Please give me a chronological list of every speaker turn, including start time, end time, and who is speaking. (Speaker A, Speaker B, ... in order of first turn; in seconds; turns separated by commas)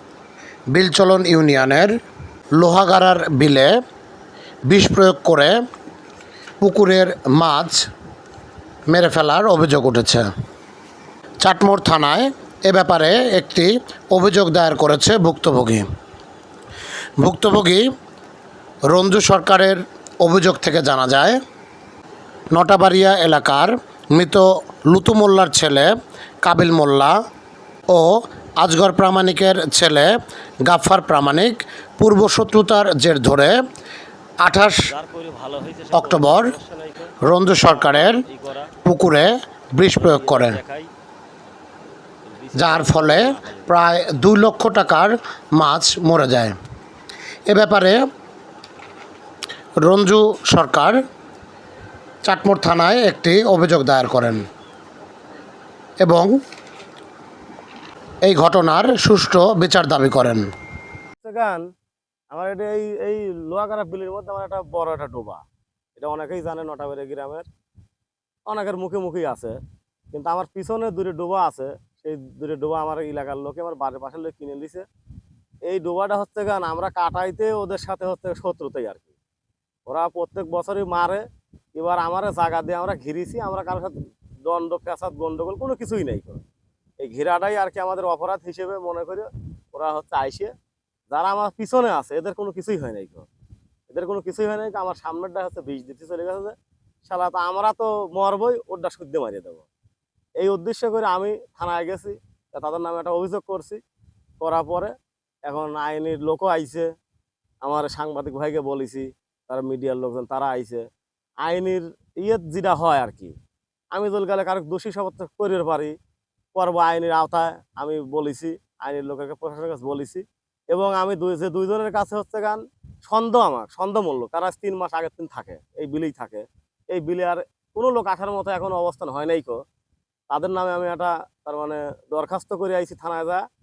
Speaker A: 0.7-1.9, Speaker A: 2.6-3.7, Speaker A: 4.7-5.6, Speaker A: 6.6-7.8, Speaker A: 8.9-10.2, Speaker A: 11.4-15.8, Speaker A: 17.2-17.8, Speaker A: 18.9-21.4, Speaker A: 22.5-25.9, Speaker A: 26.4-27.1, Speaker A: 27.9-30.1, Speaker A: 30.6-33.6, Speaker A: 34.4-34.9, Speaker B: 34.9-38.7, Speaker A: 35.9-36.5, Speaker A: 37.2-38.2, Speaker A: 38.8-40.6, Speaker B: 39.9-40.9, Speaker B: 42.2-43.8, Speaker A: 42.6-46.5, Speaker A: 47.5-48.0, Speaker A: 49.8-51.0, Speaker A: 52.3-54.4, Speaker A: 56.0-56.3, Speaker A: 58.2-60.4, Speaker B: 61.2-61.6, Speaker B: 62.3-65.4, Speaker B: 66.0-67.5, Speaker B: 68.5-69.6, Speaker B: 70.1-74.8, Speaker B: 75.7-79.1, Speaker B: 79.9-81.2, Speaker B: 81.7-86.4, Speaker B: 87.0-90.5, Speaker B: 91.1-93.3, Speaker B: 93.9-99.7, Speaker B: 100.4-103.8, Speaker B: 104.4-104.9, Speaker B: 105.5-106.9, Speaker B: 107.6-110.8, Speaker B: 111.4-113.3, Speaker B: 113.9-115.9, Speaker B: 116.5-129.6, Speaker B: 130.3-133.4